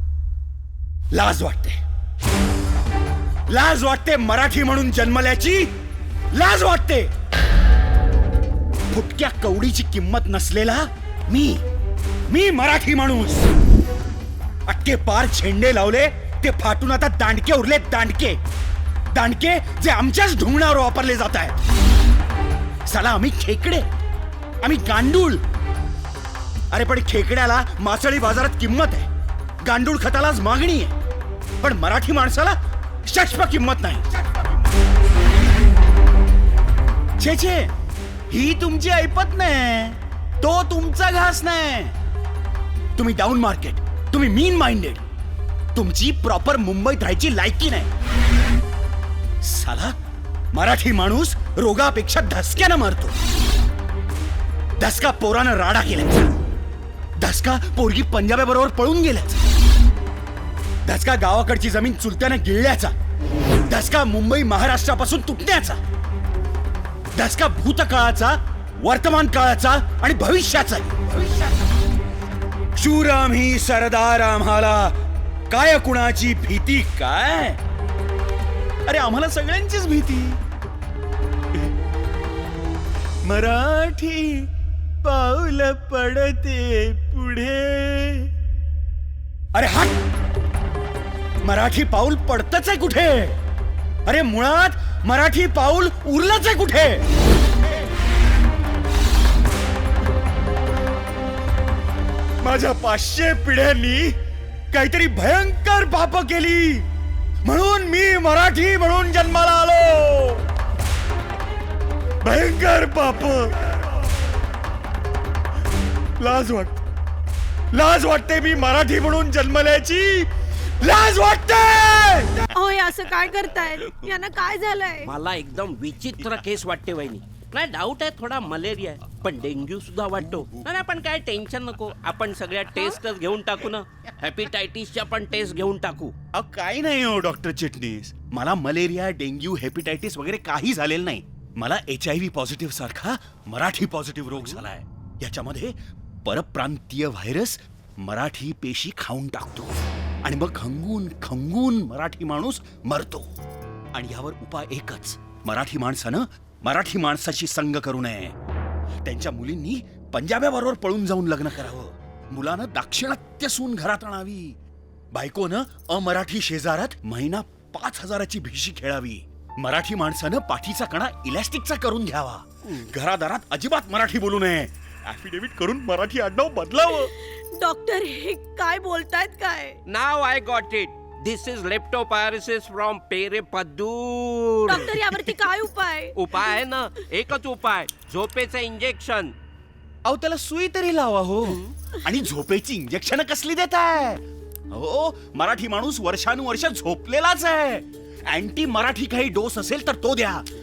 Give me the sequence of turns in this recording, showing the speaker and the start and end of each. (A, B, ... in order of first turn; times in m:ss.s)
0:01.1-0:01.8 A
0:03.5-0:05.7 A
0:06.3-0:07.1 A
0:08.9-0:11.6 A
0:12.3-0:13.5 A
0:14.7-0:18.4 A
0:19.1-0:21.6 A
0:22.9-0:23.8 A
0:24.6-0:25.4 A
0:26.7-0:29.1 A
0:29.6-0:30.9 A
0:31.6-0:34.0 A
0:37.2-0:37.7 A
0:38.3-0:42.0 A
0:43.0-0:45.0 A
0:45.8-0:47.9 A
0:49.4-0:50.0 A
0:50.5-0:53.1 A
0:54.8-0:56.3 A
0:57.2-0:59.4 A
1:00.8-1:02.9 A
1:03.7-1:05.8 A
1:07.2-1:11.6 A
1:12.8-1:14.9 A
1:15.5-1:17.6 A
1:18.9-1:20.4 A
1:23.2-1:24.5 A
1:25.0-1:28.3 A
1:29.6-1:30.0 A
1:31.4-1:33.4 A
1:34.1-1:37.0 A
1:42.4-1:44.1 A
1:44.7-1:46.9 A
1:47.4-1:50.4 A
1:52.2-1:53.8 A
1:56.2-1:56.8 A
1:57.7-2:00.3 A
2:00.8-2:02.5 A
2:02.6-2:05.1 B
2:05.1-2:16.1 C
2:16.4-2:29.7 A
2:30.2-2:33.2 A
2:33.9-2:38.4 A
2:39.0-2:44.5 A
2:45.1-2:57.1 A
2:57.2-2:59.8 B
2:59.9-3:05.3 C
3:04.7-3:06.5 B
3:06.2-3:09.3 C
3:10.1-3:14.2 A
3:14.7-3:20.4 A